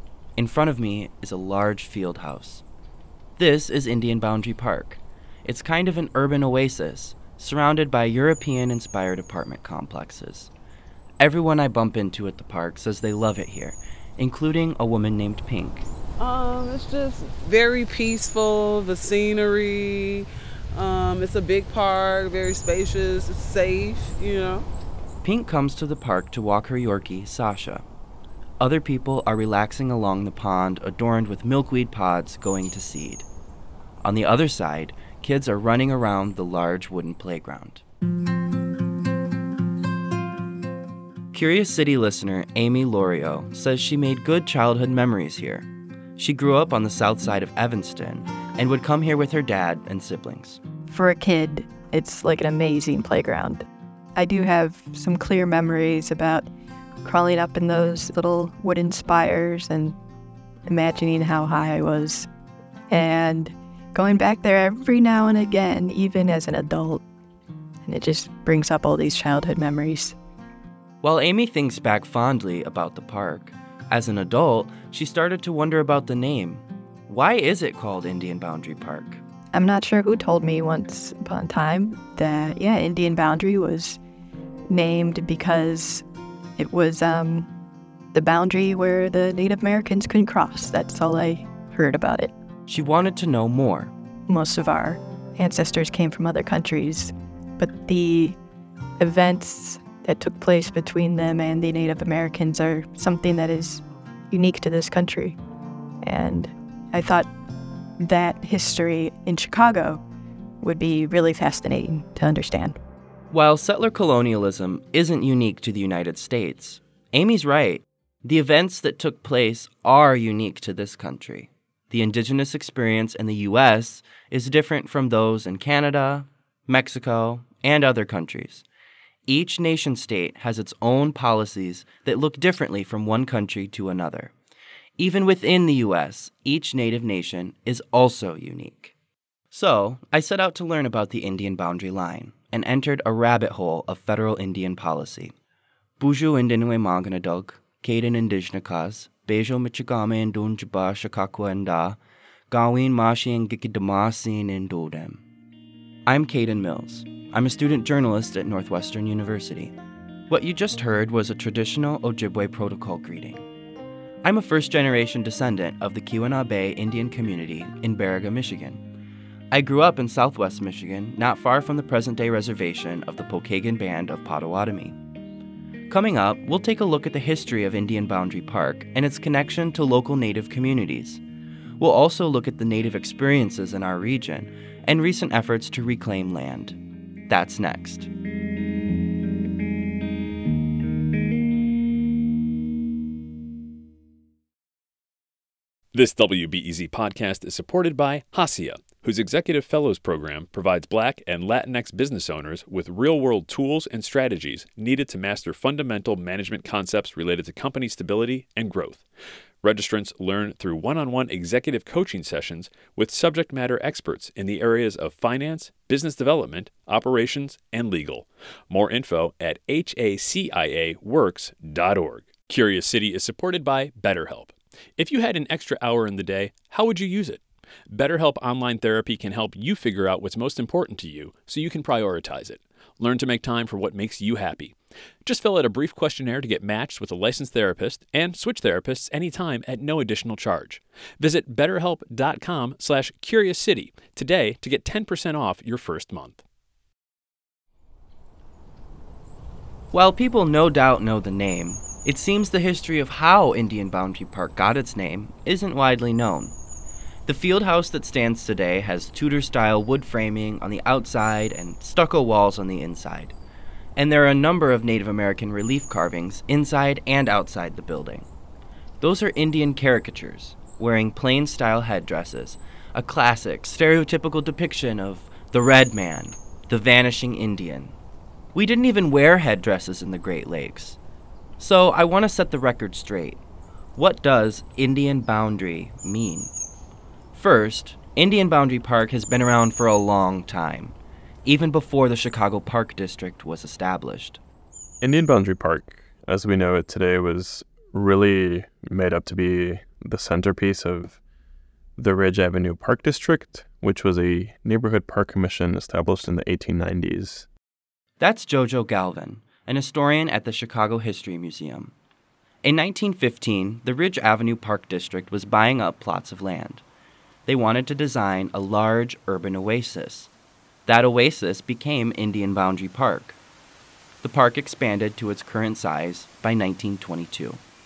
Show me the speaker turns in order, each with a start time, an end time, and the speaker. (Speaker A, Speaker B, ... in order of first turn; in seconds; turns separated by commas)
Speaker A: 0.4-2.6, Speaker A: 3.4-10.5, Speaker A: 11.2-15.9, Speaker B: 16.2-24.7, Speaker A: 25.2-27.8, Speaker A: 28.6-33.2, Speaker A: 34.0-37.8, Speaker A: 41.3-50.6, Speaker C: 50.9-53.6, Speaker C: 54.2-56.5, Speaker C: 57.0-60.0, Speaker C: 60.6-62.3, Speaker C: 62.9-67.0, Speaker C: 67.8-70.2, Speaker A: 71.0-79.2, Speaker C: 79.5-84.0, Speaker C: 84.7-86.0, Speaker C: 86.6-87.5, Speaker C: 88.1-92.3, Speaker A: 92.7-93.9, Speaker C: 94.3-98.4, Speaker C: 99.0-105.4, Speaker C: 106.0-107.3, Speaker C: 108.0-110.0, Speaker C: 110.6-112.8, Speaker A: 113.3-128.7, Speaker A: 129.3-134.3, Speaker A: 135.0-138.9, Speaker A: 139.5-145.3, Speaker A: 146.0-152.0, Speaker A: 152.5-155.2, Speaker A: 156.1-159.7, Speaker A: 160.3-163.4, Speaker A: 164.2-168.8, Speaker A: 169.5-175.0, Speaker A: 175.9-181.2, Speaker A: 181.8-186.8, Speaker A: 187.3-188.1, Speaker D: 195.9-209.0, Speaker D: 209.6-246.4, Speaker A: 249.9-256.6, Speaker A: 257.2-263.4, Speaker A: 263.9-268.3, Speaker A: 269.0-277.9, Speaker A: 278.5-281.0, Speaker A: 281.6-283.4, Speaker A: 283.9-286.5, Speaker A: 287.3-294.4, Speaker E: 295.0-301.2, Speaker E: 302.0-307.5, Speaker A: 308.2-311.9, Speaker A: 312.6-316.8, Speaker A: 317.4-320.3, Speaker A: 320.9-323.4, Speaker A: 324.2-327.6